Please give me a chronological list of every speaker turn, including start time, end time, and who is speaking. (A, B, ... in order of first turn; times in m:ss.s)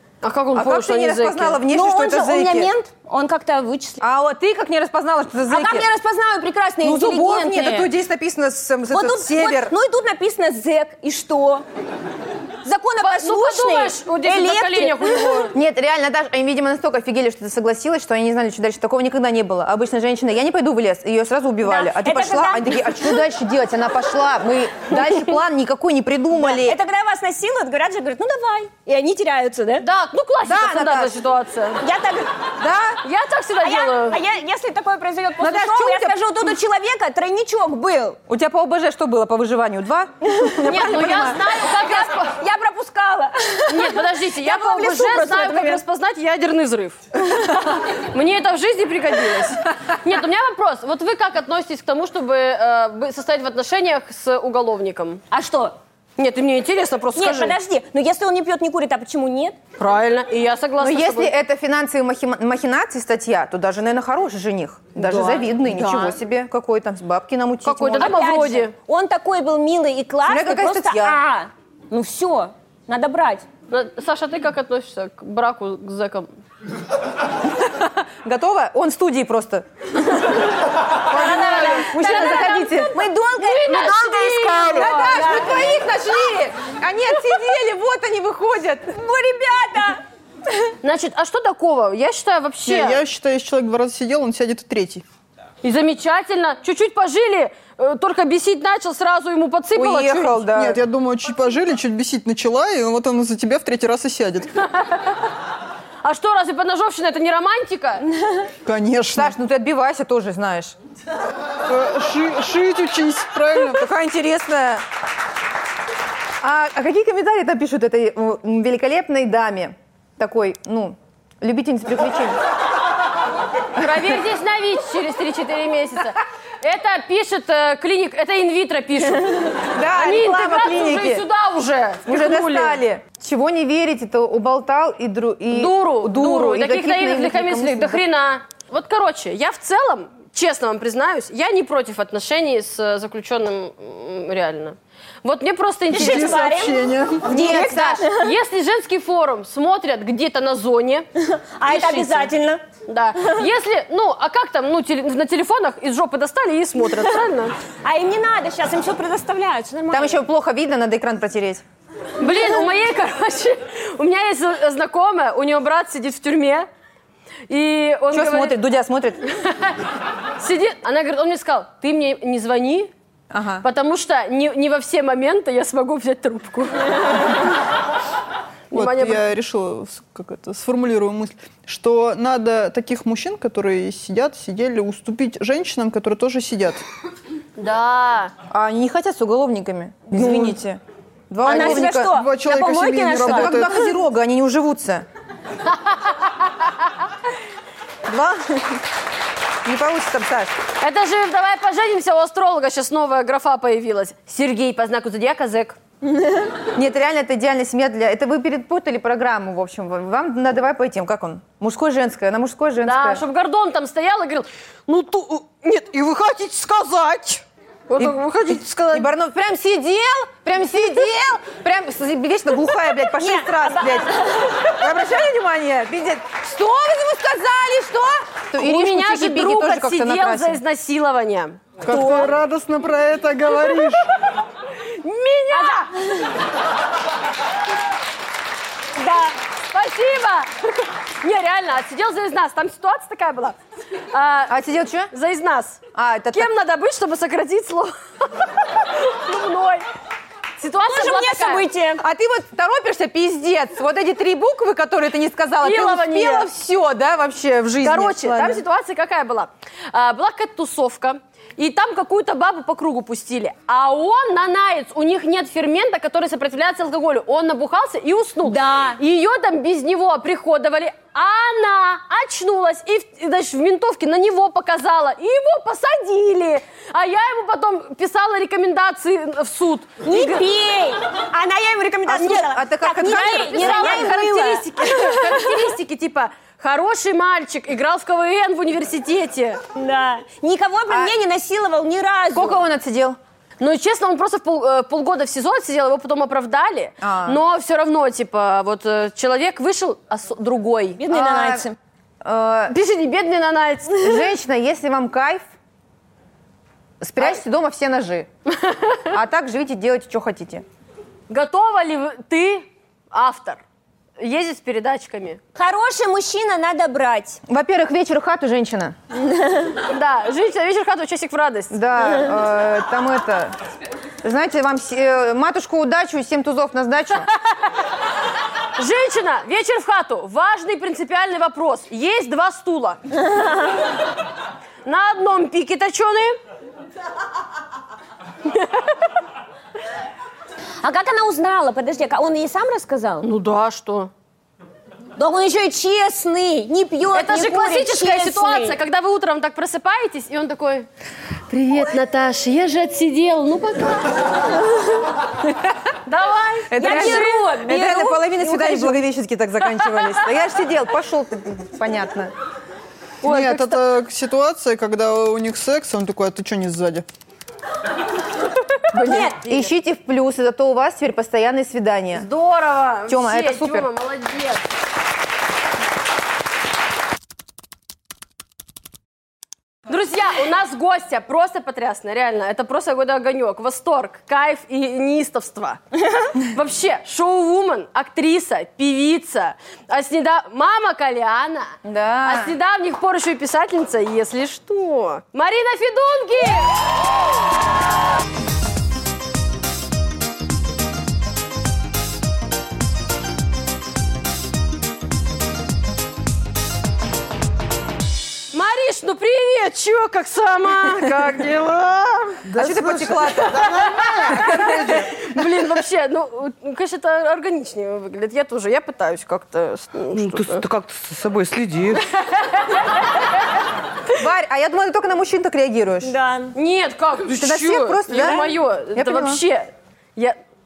0:00.2-0:01.6 A
0:00.6-0:02.7 B
0:01.7-0:04.0 C
0:04.0-0:05.9 B
0:05.5-0:07.9 C
0:06.8-0:09.7 B
0:08.9-0:11.6 C
0:12.6-0:15.5 C
0:13.0-0:15.5 A
0:15.5-0:26.8 B
0:21.6-0:23.2 C
0:26.4-0:29.9 C
0:29.8-0:31.8 A
0:30.4-0:31.1 B
0:31.8-0:32.3 C
0:32.6-0:33.0 B
0:33.0-0:34.2 A
0:33.6-0:38.2 C
0:35.4-0:36.2 B
0:38.3-0:41.4 B
0:40.4-0:45.8 C
0:40.6-0:42.4 A
0:43.7-0:55.2 A
0:55.3-0:55.8 C
0:56.2-0:57.6 A
0:57.2-0:59.6 C
0:59.8-1:01.3 A
1:00.8-1:08.2 B
1:05.0-1:06.2 C
1:07.6-1:08.7 A
1:08.0-1:13.5 C
1:10.3-1:11.2 B
1:13.7-1:16.4 A
1:17.5-1:20.4 B
1:21.1-1:23.0 B
1:21.1-1:25.9 C
1:21.1-1:25.2 A
1:24.5-1:29.0 B
1:28.9-1:30.0 C
1:30.8-1:33.0 A
1:32.7-1:35.0 D
1:35.6-1:40.4 A
1:39.7-1:40.8 B
1:40.5-1:44.6 D
1:44.8-1:45.2 A
1:46.0-1:48.0 A
1:48.6-1:49.3 D
1:49.1-1:50.8 B
1:51.7-1:53.9 D
1:53.6-1:54.8 B
1:56.4-2:02.4 B
2:03.8-2:12.8 A
2:09.7-2:11.3 B
2:12.1-2:18.0 B
2:15.5-2:26.7 A
2:25.9-2:28.3 C
2:25.9-2:27.3 D
2:27.2-2:28.0 B
2:27.3-2:31.1 A
2:31.2-2:32.6 C
2:31.6-2:32.3 A
2:32.9-2:37.6 A
2:37.8-2:40.2 C
2:39.9-2:41.6 B
2:42.2-2:46.7 A
2:47.5-2:48.6 A
2:48.1-2:49.2 B
2:49.4-2:49.7 A
2:50.4-2:52.9 A
2:53.3-2:53.7 B
2:53.6-2:57.4 A
2:58.7-2:59.2 A
2:58.7-3:06.8 D
3:07.6-3:08.3 A
3:08.5-3:12.1 B
3:11.4-3:13.9 C
3:11.5-3:13.8 D
3:13.2-3:15.1 B
3:18.1-3:18.8 B
3:19.6-3:20.5 B
3:20.8-3:25.8 A
3:26.6-3:33.2 B
3:32.8-3:39.1 A
3:38.9-3:50.6 B
3:43.1-3:44.6 C
3:48.6-3:51.6 A
3:51.8-3:54.1 D
3:51.9-3:52.3 C
3:54.9-3:55.9 A
3:55.5-3:56.4 C
3:59.0-3:59.4 C
3:59.7-4:03.6 A
4:04.1-4:04.6 A
4:04.5-4:05.1 B
4:05.1-4:05.8 A
4:05.9-4:06.5 B
4:06.3-4:09.8 A
4:10.6-4:11.7 A
4:10.9-4:12.0 C
4:12.0-4:18.6 B
4:15.6-4:16.5 A
4:17.8-4:40.5 A
4:28.4-4:29.0 C
4:40.0-4:45.6 C
4:42.1-4:44.6 B
4:43.0-4:49.6 A
4:49.7-4:52.6 C
4:50.9-4:51.2 B
4:52.3-4:53.2 B
4:53.6-5:01.0 A
4:57.0-4:57.4 B
5:01.0-5:01.8 C
5:01.1-5:01.6 B
5:02.2-5:02.7 B
5:02.7-5:04.2 A
5:04.0-5:05.5 B
5:07.0-5:08.3 B
5:08.7-5:08.9 A
5:09.1-5:10.6 B
5:11.3-5:13.6 A
5:14.2-5:15.4 A
5:15.6-5:17.4 C
5:17.5-5:19.0 B
5:19.3-5:19.7 C
5:19.8-5:21.8 A
5:21.7-5:23.6 B
5:24.2-5:27.3 B
5:28.8-5:33.0 A
5:34.8-5:36.4 A
5:38.5-5:38.8 A
5:40.8-5:43.3 C
5:43.2-5:44.1 A
5:45.2-5:48.8 C
5:47.1-5:50.9 A
5:51.5-5:54.2 A
5:56.1-5:57.6 A
5:56.7-6:02.3 B
5:56.8-5:59.0 C
6:03.2-6:03.8 A
6:03.2-6:07.0 D
6:08.9-6:09.6 A
6:08.9-6:12.3 B
6:12.1-6:14.6 A
6:13.1-6:13.9 B
6:19.9-6:25.8 A
6:26.4-6:36.8 A
6:31.8-6:32.6 B
6:48.5-6:52.4 A
6:52.4-6:55.3 E
6:52.6-6:54.9 B
6:54.3-7:00.6 A
7:00.1-7:02.1 E
7:02.3-7:02.7 A
7:04.1-7:06.2 B
7:06.0-7:06.5 C
7:06.5-7:10.4 A
7:07.3-7:09.4 B